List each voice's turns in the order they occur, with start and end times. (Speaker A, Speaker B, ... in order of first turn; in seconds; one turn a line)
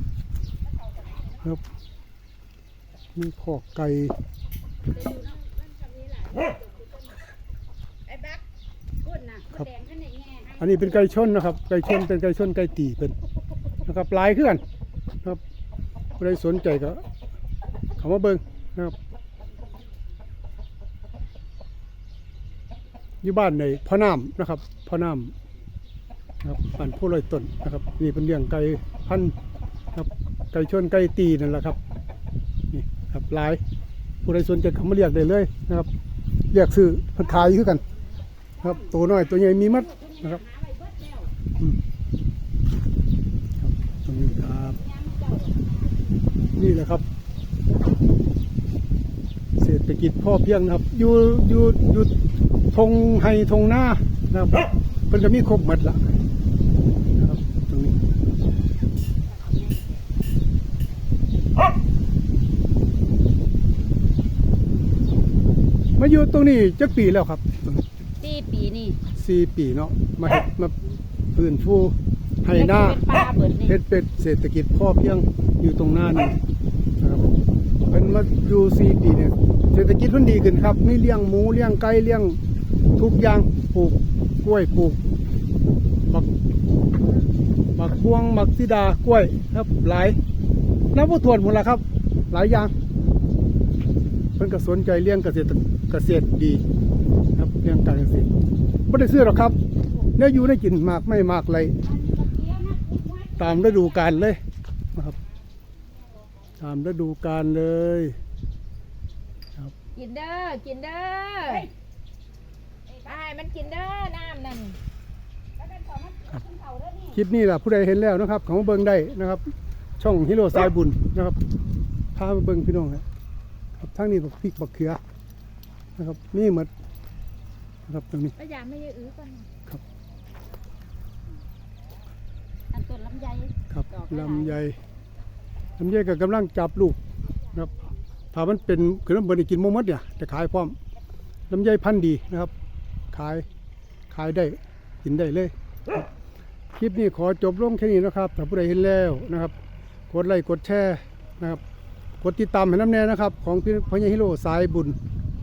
Speaker A: 3.1-4.2
Speaker B: 4.9-6.7
Speaker C: 8.1-8.4
Speaker B: 9.0-11.1
Speaker A: 10.6-13.2
Speaker A: 13.8-14.6
Speaker A: 16.2-17.0
Speaker A: 18.0-18.9
Speaker A: 23.2-25.3
Speaker A: 26.4-29.3
Speaker A: 29.9-31.8
Speaker A: 32.7-33.6
Speaker A: 34.2-35.9
Speaker A: 36.5-37.8
Speaker B: 38.6-41.3
Speaker A: 38.6-40.4
Speaker A: 43.6-44.8
Speaker B: 44.3-45.9
Speaker A: 46.5-47.0
Speaker A: 49.6-52.1
Speaker A: 52.7-56.1
Speaker A: 57.1-58.0
Speaker B: 59.3-60.0
Speaker A: 66.0-67.8
Speaker B: 68.2-69.0
Speaker A: 69.2-70.8
Speaker A: 71.3-73.1
Speaker B: 72.5-73.8
Speaker A: 73.7-76.4
Speaker A: 77.0-77.3
Speaker A: 77.9-82.4
Speaker A: 83.0-85.2
Speaker A: 87.7-90.2
Speaker A: 90.9-92.7
Speaker A: 94.3-96.6
Speaker A: 97.3-98.3
Speaker A: 98.9-99.6
Speaker A: 100.1-101.8
Speaker B: 101.8-103.9
Speaker A: 103.4-104.4
Speaker A: 106.6-108.2
Speaker C: 110.0-111.7
Speaker C: 113.0-114.8
Speaker B: 115.6-117.2
Speaker A: 117.1-121.4
Speaker A: 122.1-123.0
Speaker A: 123.8-125.0
Speaker A: 126.0-126.7
Speaker A: 127.8-128.3
Speaker C: 128.3-129.5
Speaker B: 132.7-134.6
Speaker A: 133.7-134.8
Speaker A: 135.8-137.0
Speaker A: 138.3-140.8
Speaker A: 141.5-142.5
Speaker A: 143.1-143.4
Speaker A: 144.1-146.1
Speaker A: 146.7-149.5
Speaker A: 150.1-151.6
Speaker A: 152.2-155.0